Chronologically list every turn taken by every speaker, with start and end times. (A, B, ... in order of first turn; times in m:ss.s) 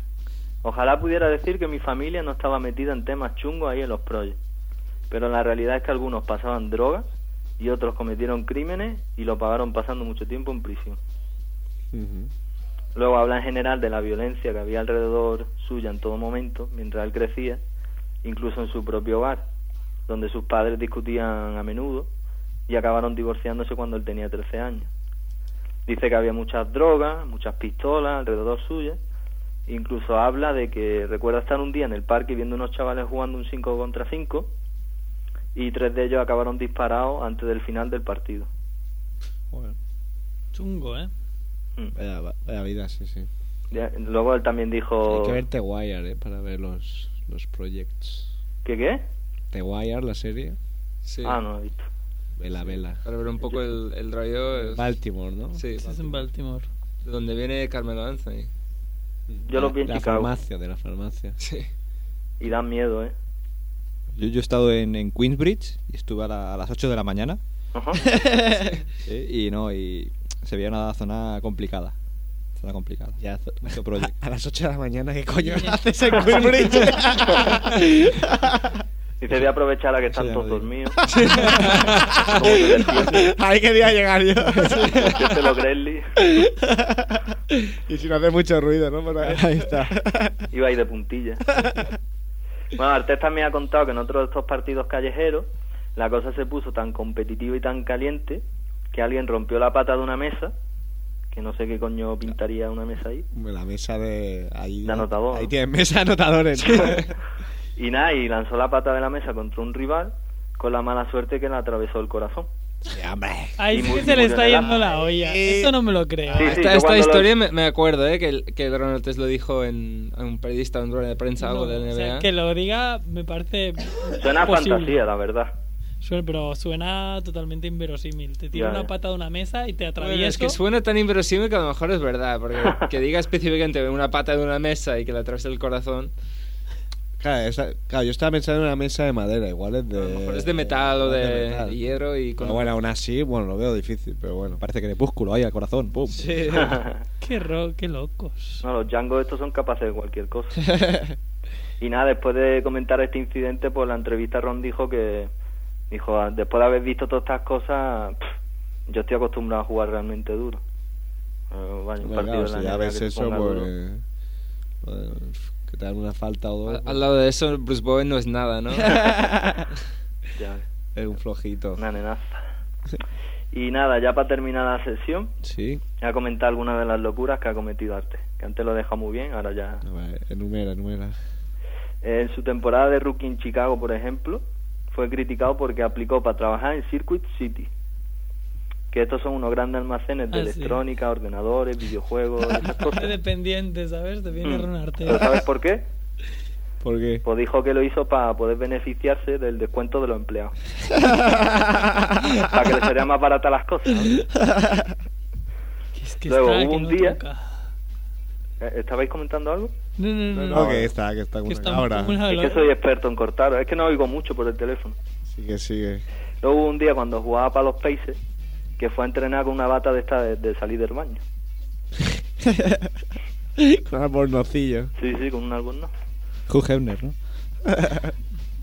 0:00.6-0:04.4 A
0:05.1-0:07.0 A
0:07.6-0:11.0 A
0:11.9-0:12.3 B
0:13.0-0:17.6 A
0:18.2-0:19.4 A
0:20.1-0:22.1 A
0:22.7-0:24.9 A
0:25.9-0:29.0 A
0:29.7-0:34.5 A
0:35.6-0:38.5 A
0:40.5-0:41.1 C
0:41.9-0:43.3 B
0:43.7-0:45.4 A
0:45.0-0:48.3 B
0:48.6-0:49.0 A
0:49.5-0:50.6 B
0:51.0-0:51.4 D
0:51.2-0:51.9 A
0:52.4-0:53.0 B
0:53.0-0:54.9 D
0:54.6-0:55.6 B
0:55.6-0:55.9 D
0:55.8-0:56.7 C
0:57.0-0:58.5 D
0:59.3-1:01.4 B
0:59.5-1:00.3 A
1:01.4-1:01.7 D
1:02.4-1:03.1 A
1:04.2-1:07.4 E
1:07.7-1:08.0 A
1:08.1-1:08.8 B
1:09.0-1:11.9 E
1:12.6-1:14.1 E
1:13.2-1:18.8 B
1:15.4-1:17.0 C
1:19.2-1:21.0 A
1:20.1-1:20.6 E
1:21.1-1:25.2 B
1:21.1-1:22.2 D
1:22.3-1:23.3 A
1:25.0-1:26.1 A
1:26.3-1:30.4 B
1:29.2-1:29.9 E
1:30.5-1:31.5 A
1:31.5-1:31.9 B
1:32.8-1:40.5 A
1:41.3-1:43.3 A
1:43.3-1:47.1 B
1:44.8-1:45.5 A
1:46.7-1:47.0 A
1:47.8-1:52.5 A
1:52.9-1:55.8 B
1:53.6-1:56.5 C
1:53.7-1:54.8 A
1:56.3-1:57.3 A
1:56.4-2:02.3 D
2:01.4-2:05.0 C
2:04.2-2:05.6 A
2:06.0-2:10.6 C
2:08.5-2:08.9 A
2:10.0-2:16.1 D
2:17.2-2:21.8 B
2:20.0-2:22.7 D
2:22.4-2:24.6 B
2:24.6-2:26.7 E
2:26.1-2:26.8 B
2:26.5-2:27.0 A
2:27.2-2:28.6 C
2:28.6-2:30.6 A
2:30.7-2:31.1 B
2:31.8-2:35.3 A
2:35.9-2:38.3 A
2:38.9-2:40.6 A
2:41.5-2:43.7 A
2:42.0-2:44.0 B
2:44.8-2:47.0 B
2:46.7-2:49.2 D
2:48.8-2:49.7 B
2:50.4-2:50.6 A
2:51.0-2:51.8 B
2:51.8-2:52.4 A
2:53.5-2:55.3 A
2:55.4-2:55.8 B
2:56.0-2:59.8 A
2:59.8-3:01.2 B
3:02.0-3:07.7 A
3:08.9-3:13.2 A
3:10.3-3:10.8 C
3:12.9-3:15.4 C
3:14.4-3:15.9 A
3:16.8-3:17.2 B
3:17.2-3:20.5 A
3:20.9-3:22.4 B
3:22.4-3:24.2 A
3:24.3-3:24.9 B
3:26.0-3:27.6 C
3:26.3-3:27.2 A
3:28.6-3:29.7 A
3:30.0-3:30.9 C
3:30.3-3:32.2 B
3:31.4-3:32.7 C
3:32.3-3:35.0 A
3:35.3-3:36.0 B
3:36.4-3:38.2 A
3:38.8-3:41.2 A
3:42.4-3:42.9 B
3:43.6-3:44.9 B
3:45.0-3:45.9 A
3:46.5-3:47.2 E
3:47.8-3:48.1 B